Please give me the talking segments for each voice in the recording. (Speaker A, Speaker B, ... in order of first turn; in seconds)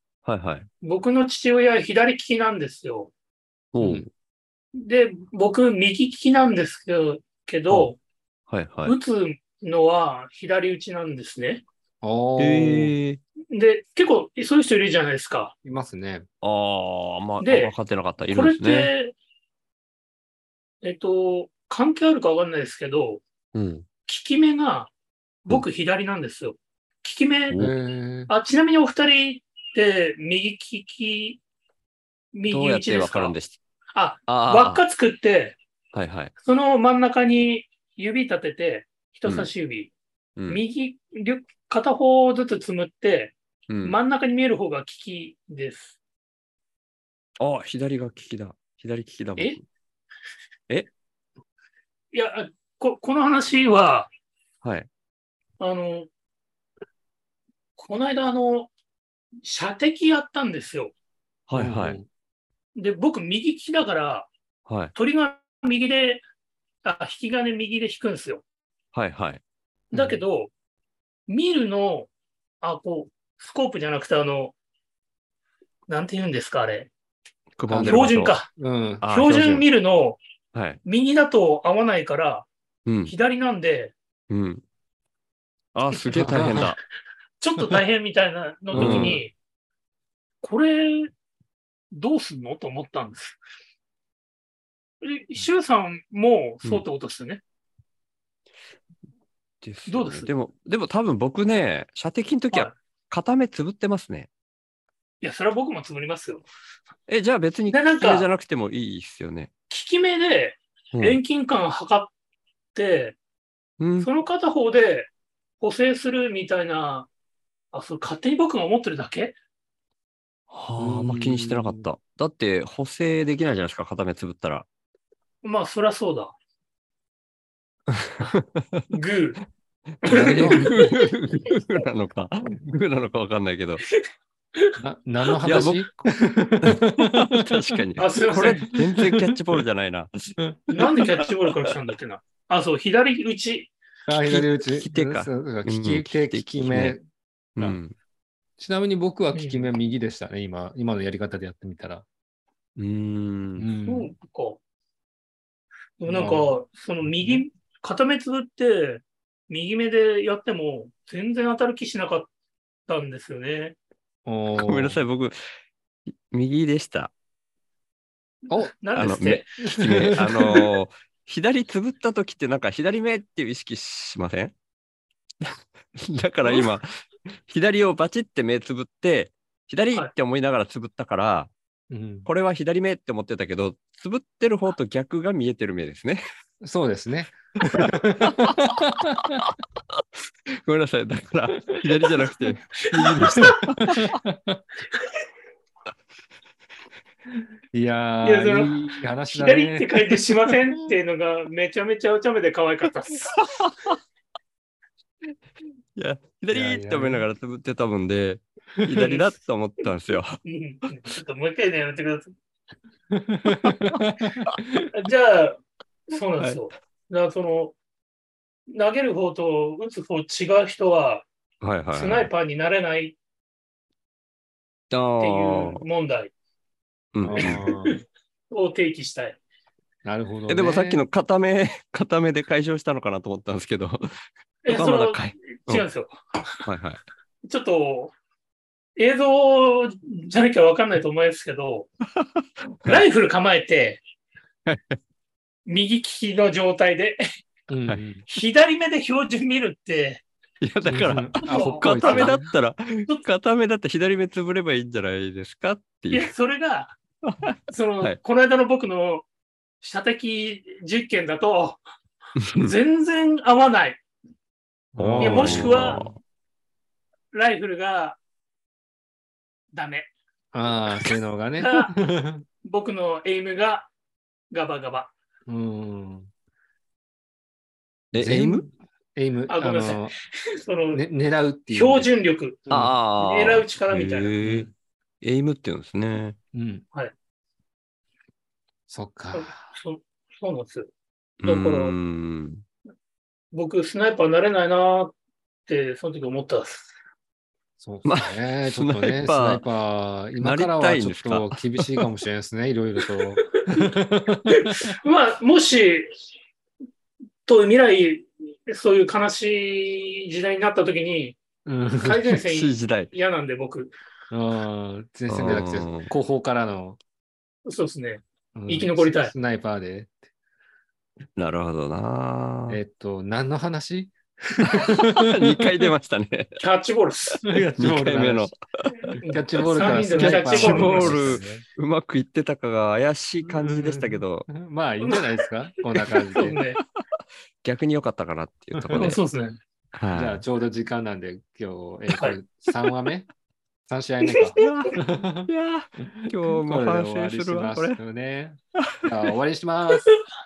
Speaker A: 0.2-0.7, 3.7-4.1, 8.5-9.0, 12.4-13.2, 16.4-18.9, 23.5-23.9, 27.5-27.8, 32.5-33.6, 34.3-34.8, 35.9-36.3, 40.4-40.6, 43.7-44.0, 47.4-49.6, 61.5-62.0, 64.7-64.9, 68.9-69.4, 77.6-78.4, 79.0-79.7, 80.5-80.8, 82.9-83.1, 84.3-84.6, 85.8-86.8, 88.8-89.2, 99.6-104.3, 107.1-109.5, 110.9-111.2, 113.8-114.1, 120.5-124.7, 128.0-128.9, 130.1-133.8, 135.4-135.9, 136.6-140.3, 144.3-147.0, 147.6-147.9, 152.8-153.7, 164.6-165.4, 166.3-167.1, 168.9-174.5, 175.4-176.9, 177.5-181.5, 182.3-186.2, 189.4-190.0, 190.5-194.1, 203.3-203.9, 205.9-210.4, 213.6-214.6, 216.4-216.6, 221.6-222.3, 224.9-225.8, 227.1-227.6, 230.5-234.1, 234.7-235.9, 236.7-237.0, 242.2-243.0, 244.7-245.0, 250.6-256.3, 257.3-258.2, 265.0-266.2, 278.1-278.7, 282.7-284.7, 285.2-286.4, 291.4-292.6, 298.1-299.6, 300.4-302.1, 312.5-313.1, 315.3-316.1, 321.4-322.8, 325.1-326.6, 327.8-328.6, 329.8-334.5, 337.6-339.2, 339.9-340.4, 344.6-345.0, 345.5-348.0
Speaker B: 0.8-3.1, 4.8-8.0, 8.9-11.6, 13.5-15.5, 17.4-17.7, 18.3-19.1, 20.8-23.2, 24.1-24.9, 25.4-27.6, 28.3-31.4, 32.3-33.4, 33.9-35.6, 36.4-39.9, 40.5-46.0, 52.1-54.1, 55.6-56.1, 57.8-58.7, 59.4-60.9, 62.8-64.3, 64.9-66.2, 66.8-68.4, 69.9-70.5, 71.3-72.1, 72.6-74.5, 75.9-76.9, 77.8-78.5, 79.1-80.2, 80.8-82.5, 83.0-83.9, 86.3-86.6, 87.4-89.3, 90.4-91.1, 91.9-93.4, 95.0-97.4, 99.9-100.3, 105.2-106.4, 107.7-108.3, 109.7-112.1, 112.8-113.2, 114.0-117.1, 117.7-119.3, 125.4-126.3, 128.9-129.4, 130.0-131.0, 138.0-138.7, 140.7-143.7, 149.3-149.7, 153.8-154.6, 156.0-162.3, 162.9-163.8, 168.8-169.4, 176.4-176.7, 192.9-193.6, 198.2-203.4, 209.0-209.3, 210.4-212.3, 214.9-217.8, 218.7-221.3, 221.9-223.2, 225.2-226.3, 227.4-227.9, 228.5-229.4, 234.6-236.6, 237.5-238.1, 239.0-241.9, 242.9-244.0, 245.7-247.2, 248.3-250.2, 251.4-252.4, 256.1-257.0, 257.7-259.3, 259.8-261.8, 262.6-264.0, 265.2-266.0, 267.3-268.2, 269.7-270.1, 271.6-271.9, 272.6-273.9, 274.5-275.1, 279.5-281.0, 281.7-284.3, 289.3-290.9, 291.4-291.9, 293.5-295.1, 295.7-296.9, 304.6-306.1, 307.5-311.4, 312.0-313.9, 317.7-319.3, 326.6-327.4, 329.2-331.4, 336.0-336.8, 339.0-339.6, 344.3-344.7
Speaker C: 3.8-4.1, 12.0-12.9, 15.6-16.3, 27.6-28.3, 61.5-62.1, 69.9-70.2, 77.7-79.0, 86.2-86.7, 88.7-89.2, 120.8-121.9, 130.1-130.7, 134.8-137.3, 138.4-139.3, 140.5-140.9, 144.1-147.0, 148.6-152.1, 153.6-154.1, 156.1-156.5, 157.1-157.4, 164.3-165.0, 169.6-170.7, 181.9-182.3, 186.6-189.5, 193.2-194.6, 197.7-200.4, 206.5-207.3, 213.2-214.9, 227.2-228.0, 230.0-231.0, 247.7-248.2, 250.8-252.5, 264.9-266.1, 270.5-272.4, 275.5-276.3, 278.2-280.1, 280.9-282.1, 282.7-283.0, 284.4-284.7, 286.5-286.9, 288.9-289.7, 297.8-304.7, 311.7-312.4, 314.3-317.0, 318.6-320.2, 322.7-325.3, 327.4-328.5, 329.2-331.6, 333.4-336.6, 338.8-339.2, 340.1-343.3, 343.9-345.5, 346.2-350.1